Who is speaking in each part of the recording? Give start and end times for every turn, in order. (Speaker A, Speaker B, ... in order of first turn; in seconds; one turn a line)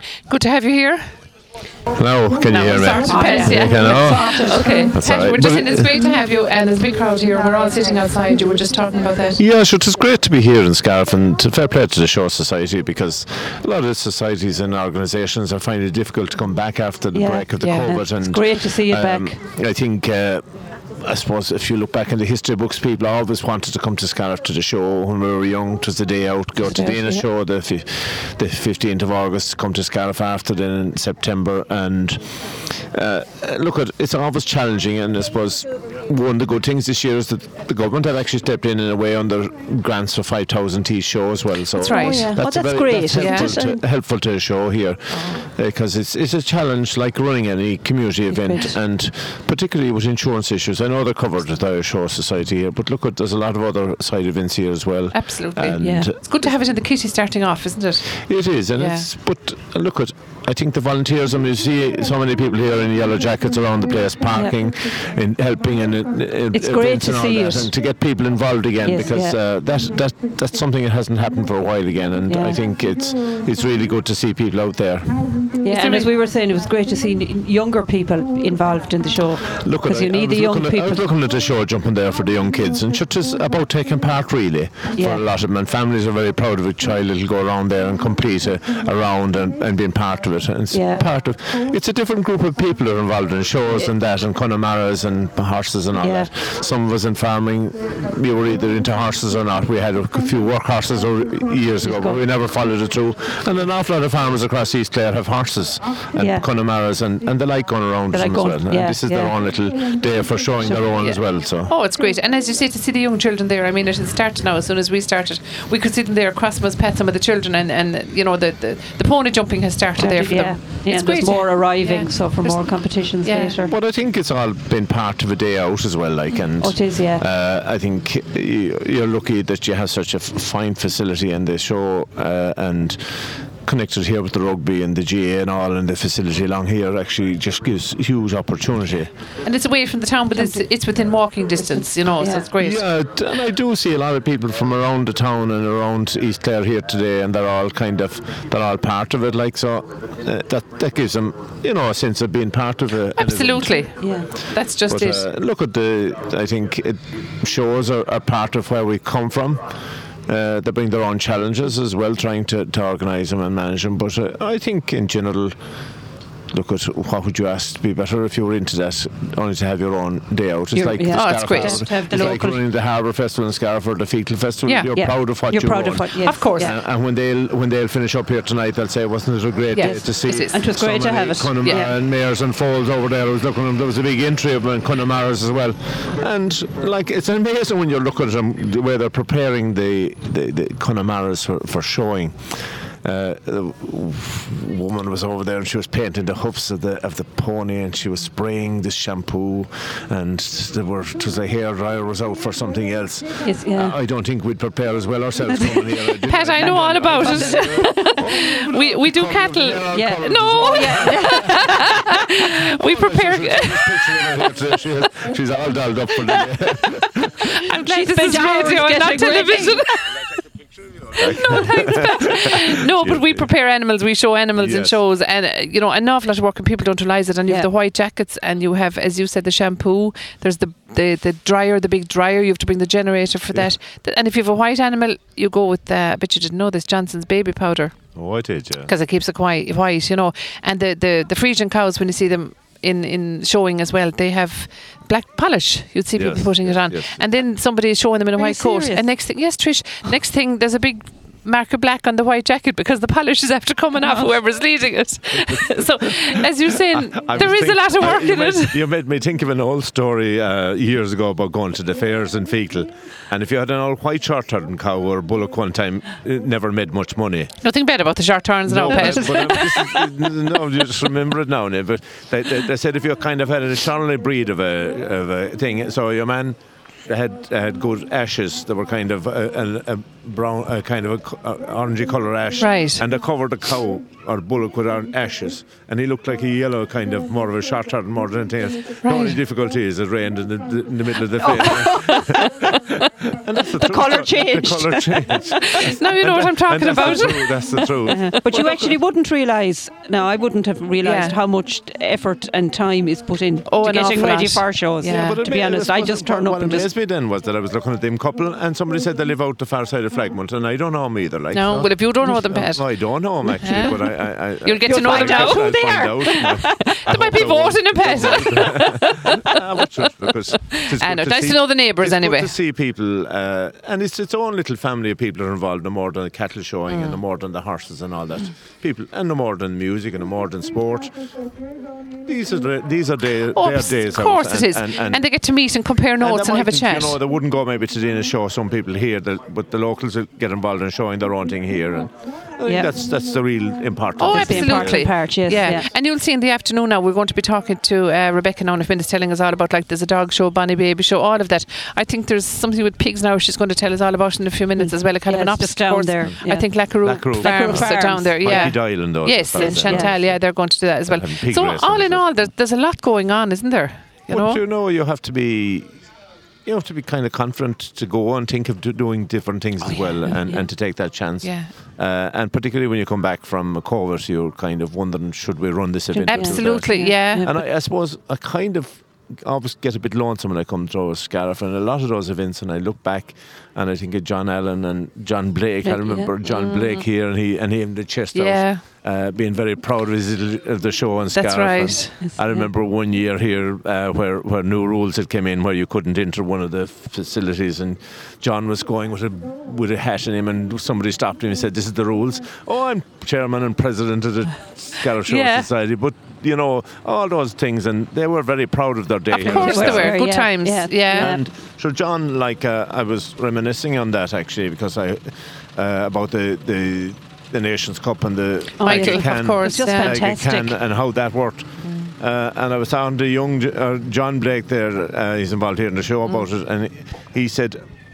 Speaker A: 0.3-1.1
Speaker B: 1.9-6.1
Speaker A: 2.5-9.4
Speaker C: 3.0-4.9
Speaker B: 9.4-20.4
Speaker C: 17.1-19.4
Speaker B: 21.0-56.3
Speaker C: 26.6-27.2
Speaker A: 41.8-42.3
Speaker C: 41.8-43.8
Speaker A: 43.2-43.5
Speaker A: 45.1-45.5
Speaker C: 48.3-48.8
Speaker A: 55.1-58.2
Speaker C: 55.8-56.1
Speaker B: 58.2-75.2
Speaker A: 58.8-59.1
Speaker C: 66.5-67.7
Speaker C: 68.8-69.4
Speaker C: 72.3-72.6
Speaker C: 75.6-81.0
Speaker A: 75.7-76.1
Speaker B: 79.5-111.7
Speaker C: 84.9-85.2
Speaker C: 90.7-91.0
Speaker C: 96.0-96.3
Speaker C: 101.8-102.2
Speaker C: 106.2-106.4
Speaker C: 108.1-109.4
Speaker C: 110.6-110.9
Speaker A: 111.0-123.6
Speaker C: 120.0-123.7
Speaker B: 123.6-139.1
Speaker C: 126.6-127.2
Speaker A: 139.4-142.8
Speaker C: 142.2-142.5
Speaker B: 142.6-153.9
Speaker A: 153.2-155.3
Speaker C: 154.0-154.3
Speaker B: 154.9-159.6
Speaker B: 160.3-165.5
Speaker B: 166.5-192.4
Speaker C: 170.7-172.6
Speaker A: 171.1-171.9
Speaker C: 174.9-176.7
Speaker A: 176.2-176.7
Speaker A: 179.7-180.7
Speaker C: 180.5-181.9
Speaker A: 181.6-181.9
Speaker B: 193.0-211.6
Speaker C: 203.4-203.9
Speaker C: 205.4-208.4
Speaker A: 206.3-214.5
Speaker C: 209.9-212.1
Speaker B: 212.7-217.4
Speaker A: 217.4-220.3
Speaker C: 217.8-219.8
Speaker B: 221.2-223.4
Speaker A: 221.2-238.0
Speaker B: 224.6-225.0
Speaker B: 238.2-238.9
Speaker A: 238.9-258.8
Speaker B: 246.2-247.2
Speaker C: 248.4-249.1
Speaker B: 255.4-255.8
Speaker B: 257.1-267.5
Speaker A: 267.6-270.0
Speaker B: 268.7-299.0
Speaker A: 282.6-283.0
Speaker A: 289.0-289.4
Speaker C: 291.4-292.5
Speaker A: 291.6-292.6
Speaker C: 293.8-295.9
Speaker A: 295.7-298.3
Speaker C: 296.9-297.4
Speaker C: 298.0-306.9
Speaker A: 301.0-301.4
Speaker A: 303.7-305.4
Speaker B: 305.0-331.1
Speaker A: 311.5-314.0
Speaker C: 313.5-314.1
Speaker A: 314.6-319.6
Speaker C: 314.8-316.9
Speaker A: 320.6-322.5
Speaker A: 326.9-327.2
Speaker B: 332.2-335.2
Speaker A: 333.5-337.2
Speaker B: 336.2-345.1
Speaker C: 342.6-342.9
Speaker A: 344.2-364.6
Speaker C: 344.3-345.9
Speaker C: 354.8-360.1
Speaker B: 357.0-360.4
Speaker B: 361.1-362.4
Speaker B: 364.3-365.9
Speaker B: 366.6-410.1
Speaker C: 369.8-370.6
Speaker A: 371.4-371.7
Speaker C: 376.1-377.6
Speaker A: 376.3-377.4
Speaker C: 385.8-386.3
Speaker A: 386.4-387.0
Speaker A: 388.3-388.8
Speaker A: 391.3-392.2
Speaker C: 392.2-392.7
Speaker A: 405.2-405.7
Speaker A: 409.3-411.4
Speaker C: 409.4-411.4
Speaker B: 411.1-427.8
Speaker C: 418.8-420.8
Speaker A: 418.8-420.2
Speaker A: 421.9-422.1